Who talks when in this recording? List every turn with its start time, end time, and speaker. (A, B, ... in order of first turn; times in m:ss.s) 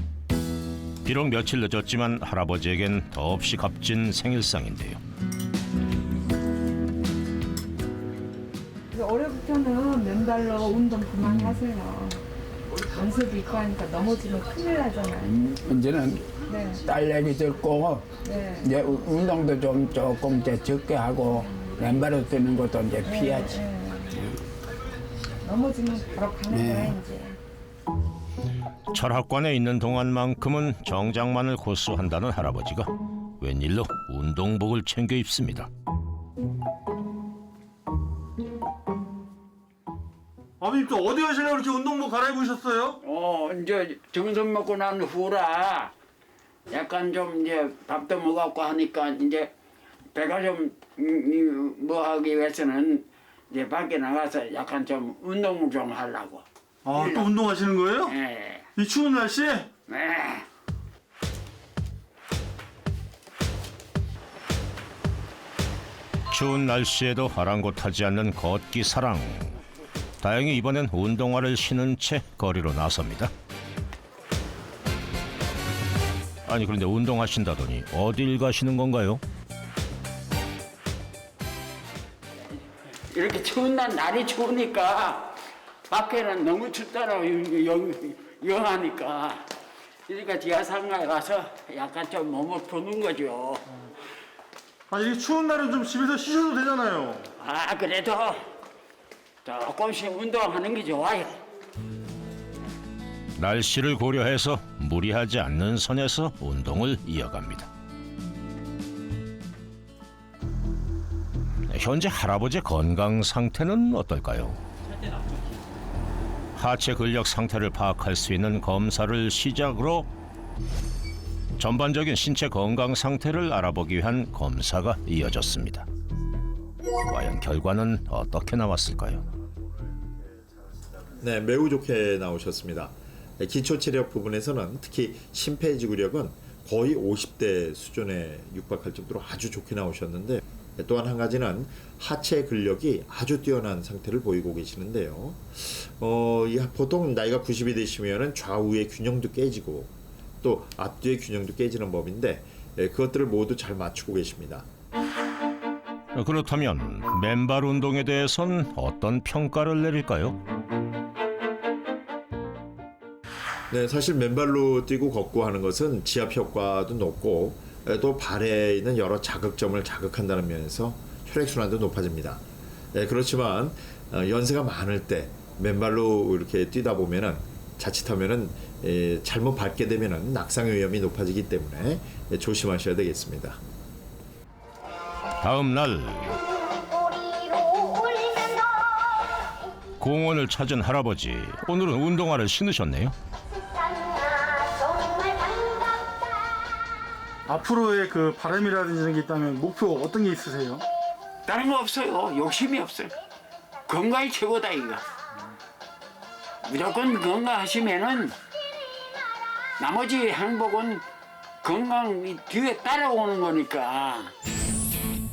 0:01.0-0:05.0 A
0:08.9-0:12.2 B
0:12.9-0:15.3 B
0:15.2-0:16.3 C
0:16.5-0:16.8 B
0:16.8-0:23.6 C
0:18.2-0:18.7 B
0:23.0-0:24.1 B
0:25.4-0:27.4 B
0:26.5-0:26.9 C
0:28.9-0:35.7 A
0:40.6-0:43.0 D
0:43.0-0:45.9 C
0:46.7-0:49.5 C
0:50.1-0:57.3 C
0:56.8-0:58.1 D
0:58.0-0:58.7 C
0:58.8-0:59.7 D
0:59.9-1:00.5 C
1:06.3-1:09.6 A
1:10.2-1:13.3 A
1:16.4-1:19.2 A
1:23.1-1:25.4 C
1:25.9-1:29.5 C
1:30.1-1:33.6 C
1:34.9-1:37.3 D
1:37.4-1:38.4 C
1:39.4-1:41.4 C
1:43.4-1:47.7 A
1:51.6-1:54.6 A
1:56.6-2:00.1 A
2:01.6-2:05.9 A
2:07.0-2:09.2 A
2:11.2-2:34.7 E
2:36.1-2:40.4 A
2:43.7-2:52.4 E
2:52.9-3:03.6 E
3:05.4-3:06.4 A
3:10.0-3:13.2 A
3:17.5-3:20.8 D
3:21.4-3:23.1 C
3:23.9-3:25.0 C
3:26.6-3:28.4 C
3:29.8-3:31.0 C
3:31.6-3:34.3 C